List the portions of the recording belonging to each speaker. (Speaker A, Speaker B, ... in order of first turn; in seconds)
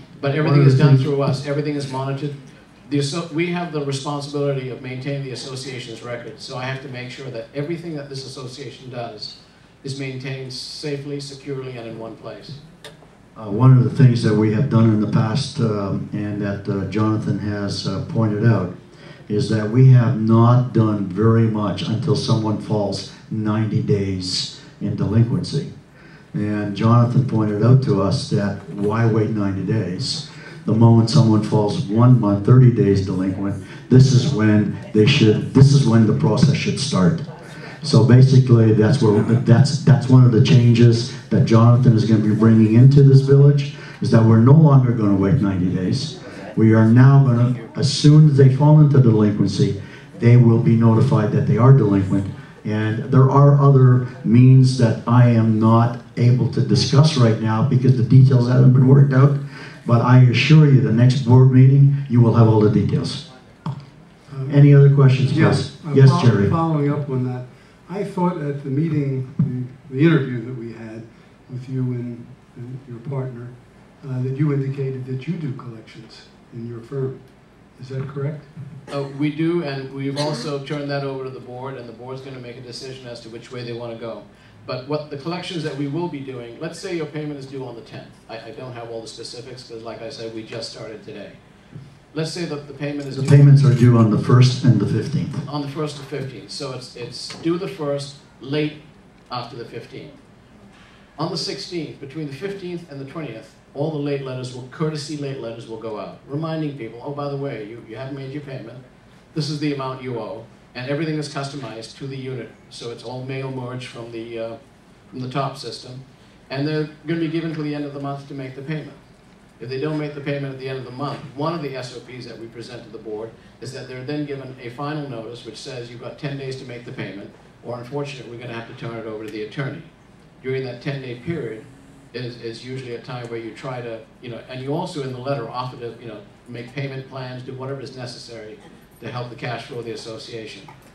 Speaker A: 0.2-12.6, 78.9-91.4, 92.1-93.5, 95.5-100.1, 101.2-108.8, 109.3-114.6, 115.1-119.0, 119.6-129.9, 130.4-140.7
Speaker B: 0.2-1.1, 64.3-64.7, 65.3-78.5
Speaker C: 13.3-18.8, 19.3-25.7, 26.3-37.3, 37.8-63.2, 64.5-66.6, 93.1-95.4